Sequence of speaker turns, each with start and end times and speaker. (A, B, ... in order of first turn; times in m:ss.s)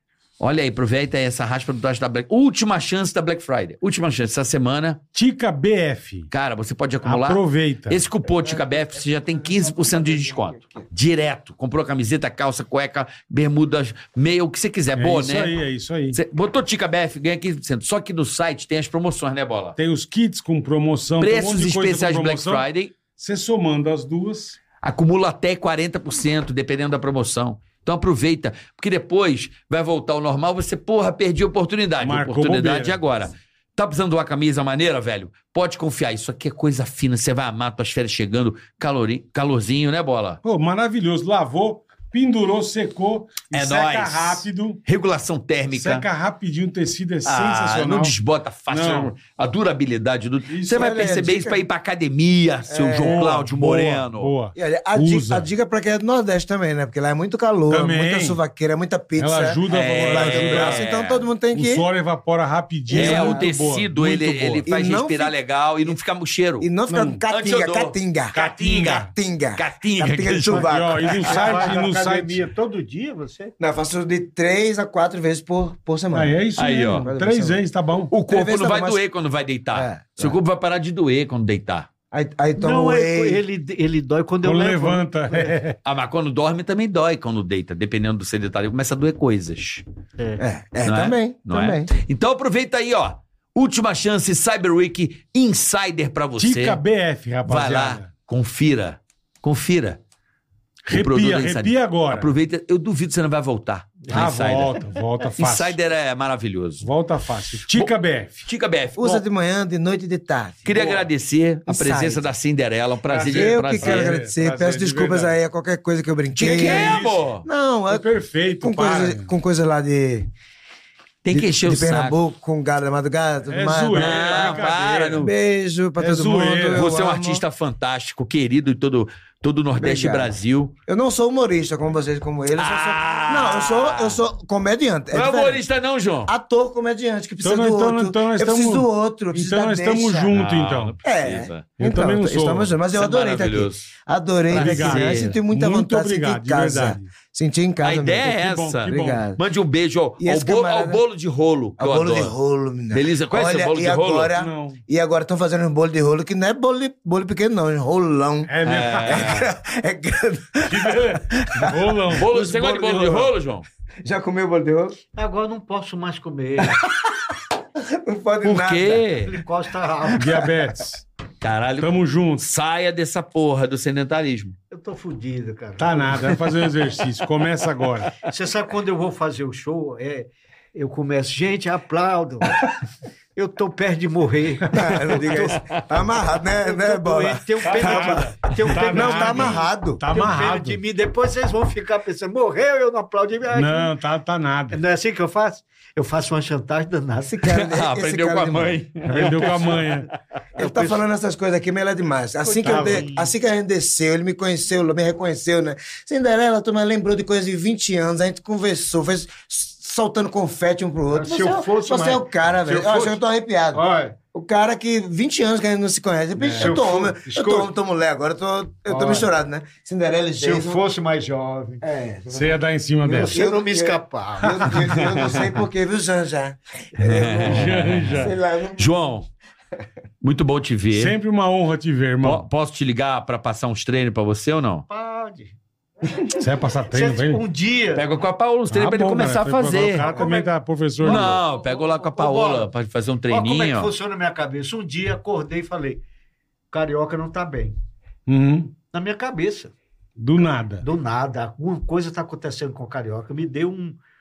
0:00.4-0:05.0 A
0:05.1-0:06.3 B
0:06.3-0:15.6 A
0:07.0-0:08.0 B
0:08.4-0:10.9 C
0:15.0-0:16.2 B
0:16.1-0:19.8 A
0:19.8-0:24.6 B
0:21.2-0:22.9 A
0:24.8-0:40.4 A
0:32.0-0:33.0 B
0:40.4-0:44.8 B
0:43.5-0:46.1 A
0:45.7-0:48.2 B
0:47.2-0:54.4 A
0:48.7-0:49.1 B
0:50.5-0:51.2 B
0:50.7-0:51.7 C
0:52.7-0:53.4 C
0:53.0-0:55.5 B
0:54.6-1:01.9 C
0:57.7-0:58.4 B
0:59.2-1:00.8 B
0:59.7-1:01.3 A
1:01.5-1:04.7 B
1:02.9-1:03.6 C
1:02.9-1:06.7 A
1:04.7-1:06.0 C
1:06.6-1:11.4 C
1:06.9-1:07.2 B
1:07.3-1:11.2 A
1:08.3-1:09.1 B
1:10.6-1:12.4 B
1:11.2-1:13.5 D
1:13.6-1:16.4 C
1:16.1-1:18.1 B
1:16.6-1:17.1 A
1:17.0-1:17.6 C
1:18.1-1:21.9 A
1:18.3-1:19.0 C
1:19.7-1:20.4 C
1:22.1-1:23.4 C
1:22.6-1:25.6 D
1:24.4-1:25.8 B
1:25.8-1:29.8 A
1:30.2-1:30.4 D
1:30.4-1:31.9 C
1:30.8-1:36.8 A
1:36.4-1:38.1 B
1:37.4-1:40.0 A
1:40.9-1:42.3 B
1:40.9-1:46.9 A
1:44.1-1:44.3 D
1:44.1-1:45.8 B
1:46.8-1:48.4 B
1:47.7-1:47.9 A
1:48.4-1:49.2 A
1:49.0-1:50.8 C
1:50.7-1:54.2 A
1:50.7-1:51.0 B
1:51.7-1:52.3 C
1:53.1-1:55.4 B
1:53.2-1:58.1 C
1:56.4-1:57.3 B
1:56.4-1:57.4 A
1:57.9-1:59.3 B
1:58.6-2:00.3 C
2:01.2-2:02.2 A
2:01.3-2:07.4 C
2:03.5-2:05.3 B
2:03.9-2:05.3 A
2:06.0-2:06.9 B
2:06.7-2:10.7 A
2:09.8-2:15.6 C
2:12.6-2:14.2 A
2:15.1-2:16.3 A
2:16.3-2:20.3 C
2:17.4-2:21.0 B
2:20.3-2:21.7 A
2:21.0-2:28.3 C
2:21.8-2:22.8 B
2:22.9-2:23.9 A
2:24.5-2:25.3 A
2:24.5-2:27.1 B
2:27.8-2:32.3 A
2:28.2-2:29.2 B
2:28.9-2:29.4 C
2:30.2-2:31.0 C
2:31.8-2:38.5 C
2:32.9-2:34.3 A
2:34.3-2:34.8 B
2:38.5-2:39.4 B
2:38.6-2:39.5 A
2:39.1-2:43.3 C
2:40.6-2:42.3 B
2:42.1-2:43.7 A
2:44.0-2:45.0 C
2:45.1-2:46.8 D
2:46.9-2:49.0 C
2:48.4-2:49.4 A
2:49.2-2:50.5 D
2:50.1-2:51.0 B
2:51.4-2:54.6 A
2:51.8-2:52.4 B
2:54.7-2:56.4 D
2:55.8-2:58.2 B
2:58.2-3:02.6 D
3:03.4-3:05.8 D
3:04.7-3:10.0 C
3:06.6-3:13.9 D
3:07.6-3:10.8 B
3:13.5-3:14.8 B
3:14.7-3:17.4 D
3:17.3-3:18.8 C
3:17.4-3:19.8 A
3:19.0-3:20.1 B
3:19.1-3:20.0 D
3:20.6-3:21.0 D
3:20.6-3:40.8 C
3:22.4-3:23.3 D
3:22.6-3:23.1 B
3:31.1-3:33.2 D
3:33.7-3:34.2 D
3:36.4-3:36.8 B
3:36.6-3:37.7 D
3:38.9-3:39.3 D
3:40.4-3:41.8 D
3:41.8-3:42.6 C
3:42.3-3:43.4 B
3:43.0-3:45.1 D
3:43.3-3:49.0 C
3:45.0-3:45.3 A
3:47.0-3:49.3 A
3:47.4-3:48.4 B
3:50.2-3:51.2 A
3:50.9-3:52.5 B
3:52.2-3:54.8 A
3:54.9-3:55.6 D
3:56.3-3:57.4 B
3:56.9-3:58.1 D
3:58.0-4:00.1 A
3:58.7-4:01.4 B
3:59.9-4:02.7 D
4:01.0-4:03.9 A
4:03.3-4:06.0 D
4:06.7-4:07.8 D
4:08.3-4:08.8 B
4:08.9-4:09.7 D
4:10.2-4:10.9 B
4:10.8-4:14.0 D